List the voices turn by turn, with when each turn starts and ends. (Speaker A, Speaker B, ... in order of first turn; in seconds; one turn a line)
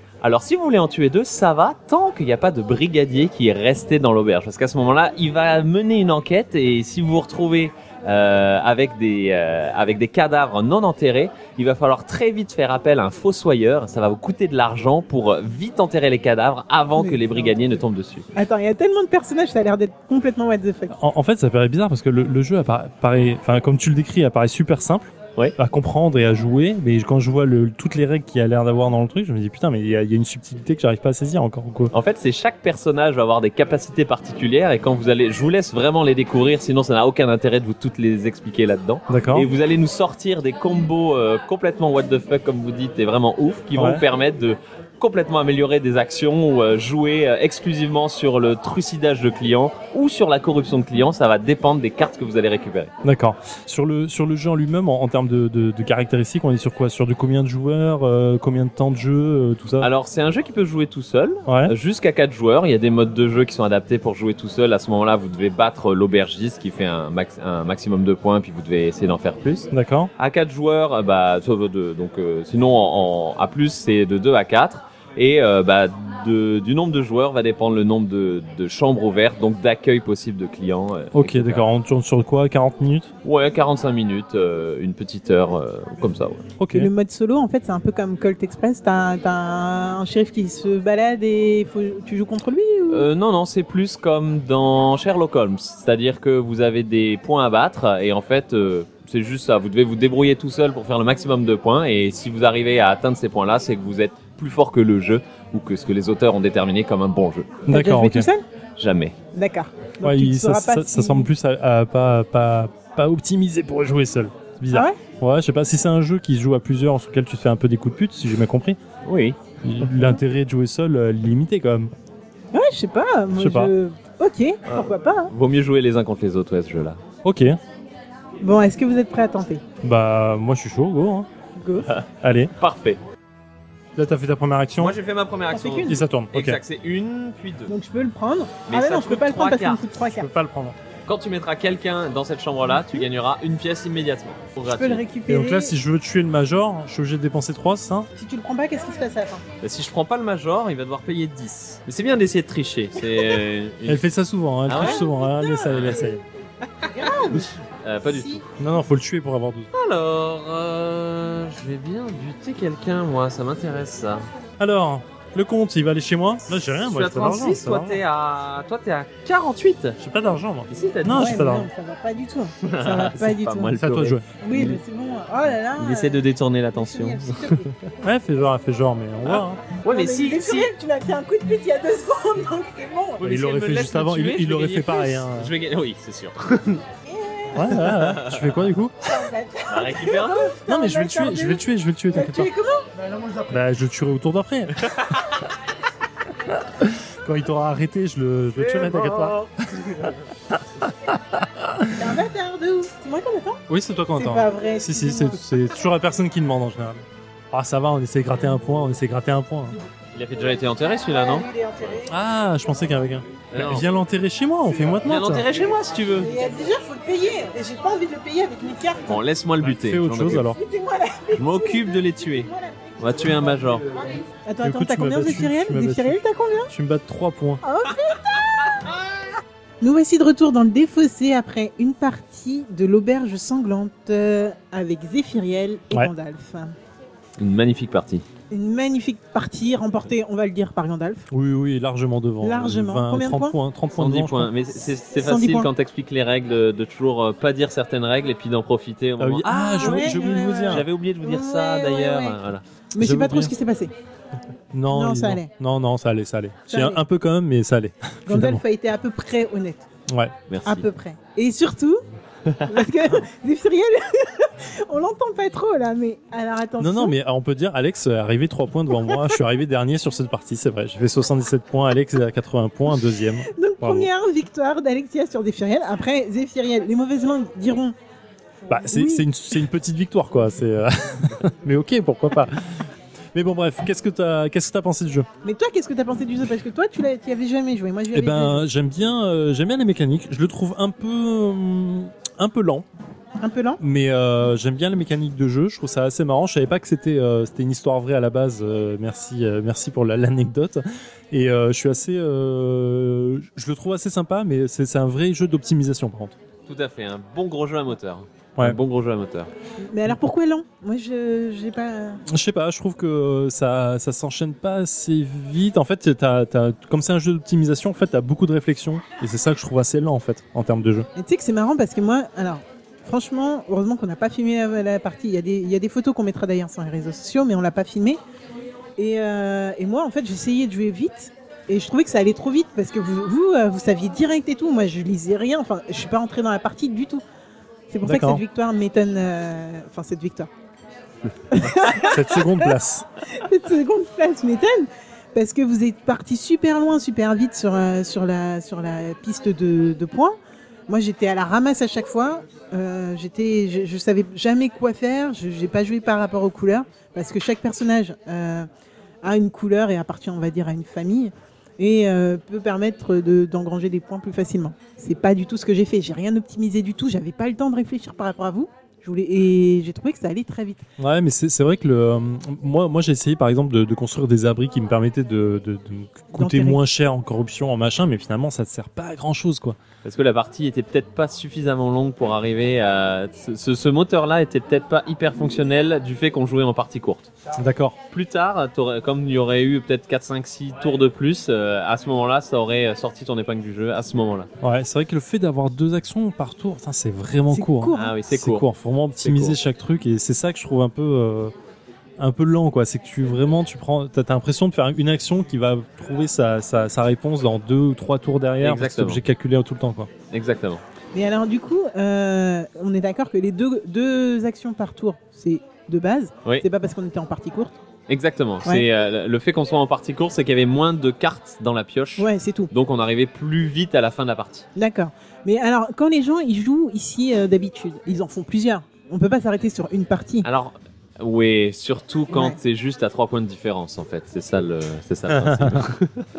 Speaker A: 0.2-18.3
Speaker B: 17.0-17.6
Speaker B: 18.4-21.0
Speaker C: 20.9-31.9
Speaker A: 31.9-52.9
Speaker C: 39.1-39.5
Speaker C: 43.7-44.0
Speaker C: 53.0-59.9
Speaker A: 59.8-81.7
Speaker C: 61.5-61.7
Speaker C: 69.7-70.1
Speaker C: 81.1-83.1
Speaker A: 83.2-86.5
Speaker C: 86.6-86.9
Speaker B: 86.7-93.1
Speaker A: 92.9-107.5
Speaker C: 107.7-108.3
Speaker B: 107.7-108.4
Speaker A: 108.8-109.2
Speaker B: 109.3-111.3
Speaker C: 110.0-118.8
Speaker B: 114.7-115.0
Speaker A: 119.1-119.4
Speaker C: 119.6-121.9
Speaker B: 122.5-125.3
Speaker C: 123.4-123.7
Speaker A: 124.7-127.0
Speaker C: 127.2-127.6
Speaker B: 128.4-129.6
Speaker C: 129.8-131.3
Speaker B: 131.6-131.9
Speaker C: 132.2-132.5
Speaker A: 132.6-133.0
Speaker C: 134.0-135.0
Speaker A: 134.8-137.7
Speaker B: 135.5-136.0
Speaker C: 135.9-136.6
Speaker B: 137.7-140.3
Speaker A: 138.7-139.9
Speaker C: 140.1-140.8
Speaker A: 141.1-145.0
Speaker B: 144.7-145.8
Speaker C: 145.3-148.1
Speaker B: 148.2-149.4
Speaker A: 149.6-154.1
Speaker C: 153.9-156.2
Speaker A: 154.7-155.0
Speaker B: 154.7-156.2
Speaker A: 155.7-156.1
Speaker B: 156.8-157.5
Speaker A: 157.2-158.5
Speaker B: 158.1-158.4
Speaker C: 158.6-159.7
Speaker A: 159.7-164.2
Speaker C: 164.6-168.0
Speaker A: 166.8-170.0
Speaker C: 170.0-171.7
Speaker A: 170.7-171.5
Speaker B: 171.1-173.7
Speaker A: 172.6-174.8
Speaker C: 173.7-174.3
Speaker B: 174.4-177.7
Speaker A: 175.8-177.7
Speaker C: 178.0-179.6
Speaker A: 179.2-180.7
Speaker B: 179.9-183.3
Speaker C: 183.2-185.5
Speaker A: 183.2-186.8
Speaker B: 187.1-187.9
Speaker C: 187.6-189.0
Speaker A: 187.8-188.6
Speaker B: 189.1-191.6
Speaker A: 189.7-190.6
Speaker C: 190.7-192.5
Speaker B: 192.1-192.9
Speaker C: 193.5-194.8
Speaker A: 195.0-195.2
Speaker C: 196.8-202.1
Speaker A: 198.6-200.1
Speaker B: 201.9-203.6
Speaker C: 203.7-209.8
Speaker B: 204.2-205.5
Speaker A: 210.1-211.5
Speaker B: 210.8-212.1
Speaker C: 212.1-215.5
Speaker A: 213.5-213.9
Speaker A: 215.1-216.3
Speaker B: 216.2-219.2
Speaker A: 219.1-220.5
Speaker C: 219.6-220.6
Speaker B: 220.4-222.9
Speaker A: 221.3-223.9
Speaker B: 224.4-226.7
Speaker C: 224.6-227.6
Speaker B: 227.6-228.9
Speaker B: 229.8-236.8
Speaker A: 237.4-238.2
Speaker B: 238.5-241.3
Speaker C: 241.3-244.5
Speaker B: 242.4-243.6
Speaker A: 243.9-252.6
Speaker B: 244.7-245.7
Speaker C: 249.2-250.9
Speaker B: 249.5-252.4
Speaker B: 252.9-253.9
Speaker C: 253.0-253.5
Speaker C: 254.7-258.6
Speaker B: 254.9-255.5
Speaker B: 256.7-257.0
Speaker B: 258.3-259.9
Speaker C: 260.1-260.3
Speaker A: 260.5-260.8
Speaker B: 260.7-262.0
Speaker A: 262.5-262.9
Speaker B: 262.7-267.1
Speaker C: 266.8-274.1
Speaker B: 269.0-269.4
Speaker B: 272.9-277.9
Speaker C: 278.7-285.3
Speaker B: 278.9-279.3
Speaker B: 285.4-288.6
Speaker C: 288.1-292.9
Speaker B: 293.4-293.8
Speaker C: 293.8-306.4
Speaker A: 306.7-309.5
Speaker B: 309.8-312.2
Speaker C: 312.3-321.1
Speaker B: 321.1-328.2
Speaker B: 329.0-337.2
Speaker B: 337.9-340.5
Speaker C: 338.0-338.4
Speaker B: 341.5-342.7
Speaker C: 342.0-343.1
Speaker B: 343.2-350.4
Speaker B: 350.9-358.7
Speaker B: 359.2-370.9
Speaker C: 371.0-379.8
Speaker B: 376.4-376.8
Speaker A: 380.1-387.3
Speaker C: 387.6-388.0
Speaker A: 388.1-394.5
Speaker C: 394.6-401.5
Speaker B: 397.5-398.2
Speaker A: 397.9-398.7
Speaker A: 399.2-399.6
Speaker C: 402.2-410.1
Speaker A: 408.6-409.2
Speaker A: 410.3-410.8
Speaker B: 411.1-417.8
Speaker A: 418.1-424.7
Speaker B: 422.2-422.7
Speaker B: 424.8-430.5
Speaker A: 430.4-436.2
Speaker B: 432.3-432.6
Speaker C: 435.3-435.8